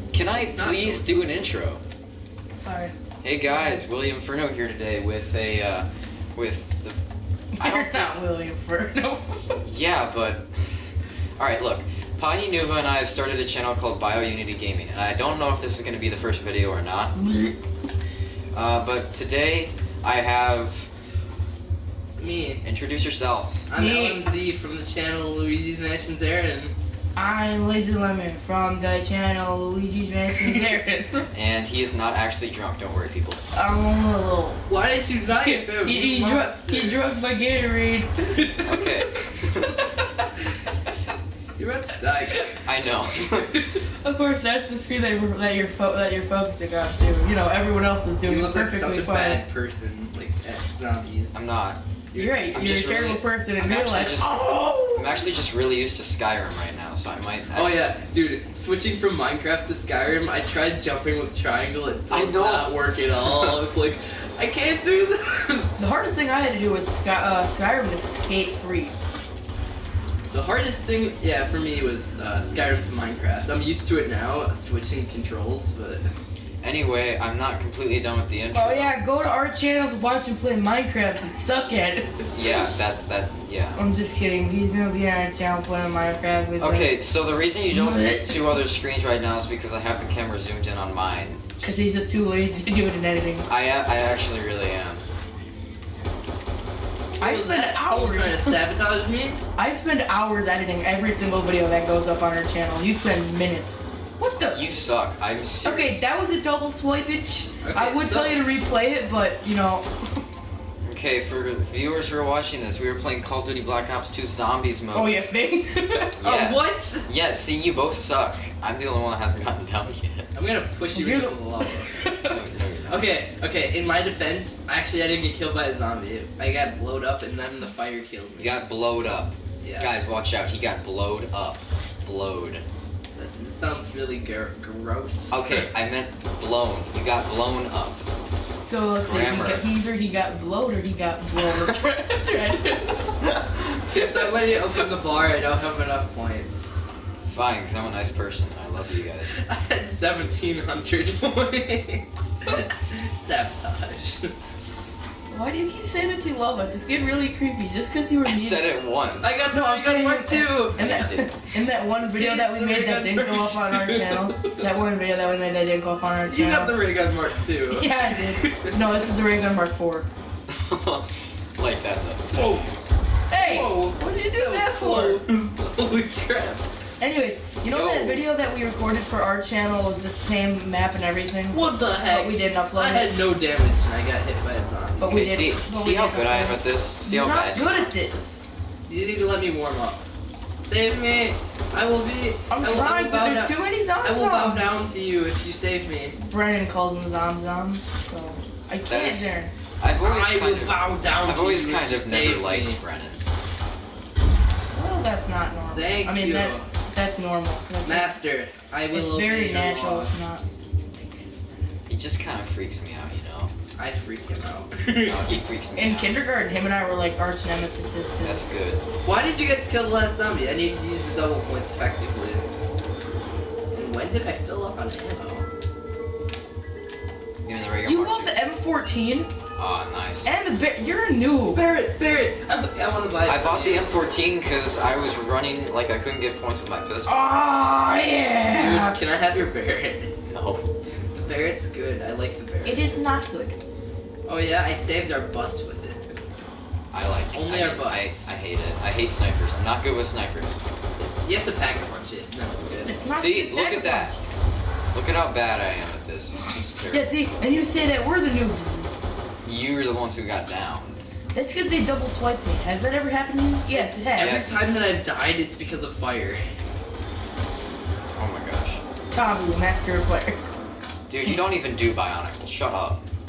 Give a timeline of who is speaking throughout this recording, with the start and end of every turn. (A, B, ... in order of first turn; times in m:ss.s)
0:00.1-0:01.8 A
0:00.2-0:01.3 B
0:02.5-0:02.9 C
0:03.2-0:07.0 A
0:07.5-0:09.6 C
0:07.6-0:08.1 A
0:09.6-0:17.1 A
0:17.2-0:17.5 C
0:18.5-0:20.9 A
0:22.2-0:22.6 B
0:22.6-0:23.7 A
0:23.7-0:26.7 B
0:23.7-0:24.3 C
0:27.2-0:31.3 C
0:31.3-0:33.4 A
0:33.5-0:34.6 C
0:34.7-0:37.0 B
0:35.3-0:40.3 C
0:38.3-0:38.6 B
0:38.6-0:39.7 A
0:41.6-0:43.8 B
0:42.6-0:43.5 A
0:44.0-0:49.4 C
0:48.2-0:51.4 B
0:51.3-0:51.8 A
0:52.1-0:52.8 B
0:52.1-0:55.3 C
0:52.5-0:57.9 A
0:57.5-1:05.7 B
1:02.1-1:02.7 A
1:03.3-1:03.6 A
1:05.8-1:08.9 C
1:10.3-1:16.0 B
1:16.6-1:19.0 A
1:18.5-1:22.3 C
1:22.3-1:23.8 A
1:23.8-1:26.9 C
1:26.6-1:31.8 A
1:27.7-1:28.6 C
1:31.6-1:33.5 C
1:33.5-1:35.0 A
1:37.2-1:39.4 B
1:37.2-1:38.6 C
1:39.6-1:44.7 C
1:44.5-1:46.0 A
1:45.6-1:50.2 C
1:47.6-1:48.4 B
1:50.8-1:55.2 A
1:54.9-1:56.2 C
1:56.2-2:00.3 A
1:56.2-1:57.1 B
2:00.3-2:01.9 B
2:00.9-2:02.4 C
2:02.2-2:03.1 A
2:02.9-2:08.6 B
2:08.4-2:12.6 A
2:09.6-2:09.9 B
2:13.2-2:15.7 B
2:15.3-2:18.0 A
2:18.6-2:23.2 C
2:19.0-2:19.6 A
2:23.3-2:24.1 A
2:23.9-2:26.8 B
2:27.2-2:29.4 A
2:29.3-2:34.3 B
2:35.3-2:38.7 C
2:38.2-2:39.5 A
2:39.2-2:40.9 B
2:39.5-2:46.8 C
2:40.8-2:41.4 A
2:42.0-2:44.6 B
2:46.3-2:48.8 B
2:47.7-2:50.1 C
2:50.5-2:52.6 A
2:52.3-2:52.7 B
2:53.3-2:55.2 C
2:53.4-2:56.6 B
2:57.0-3:03.2 C
2:57.6-2:58.2 A
3:01.5-3:05.1 B
3:05.0-3:08.4 C
3:05.0-3:07.9 A
3:08.9-3:10.0 B
3:10.6-3:16.2 B
3:12.5-3:14.7 C
3:16.2-3:19.5 C
3:18.8-3:23.2 A
3:20.0-3:22.8 B
3:24.7-3:28.2 C
3:25.5-3:26.7 B
3:27.8-3:30.1 B
3:28.9-3:31.2 C
3:31.9-3:33.5 A
3:33.8-3:35.4 B
3:35.0-3:36.1 A
3:35.8-3:38.5 C
3:38.2-3:38.8 A
3:39.0-3:42.4 B
3:43.7-3:45.5 B
3:47.4-3:48.3 A
3:47.8-3:49.3 C
3:49.6-3:50.3 A
3:50.2-3:51.6 C
3:51.5-3:53.9 B
3:53.2-3:57.3 A
3:57.0-3:59.0 C
3:58.5-4:00.1 B
4:00.3-4:00.7 A
4:01.1-4:03.0 B
4:02.6-4:03.6 C
4:04.3-4:06.2 B
4:06.9-4:10.6 A
4:07.3-4:08.4 B
4:11.0-4:13.0 B
4:12.8-4:14.2 C
4:13.1-4:14.1 A
4:14.9-4:17.1 A
4:16.9-4:19.1 C
4:19.4-4:21.0 A
4:21.3-4:24.6 C
4:23.8-4:26.5 B
4:24.2-4:24.6 A
4:28.2-4:28.8 A
4:29.1-4:30.4 C
4:31.1-4:33.0 A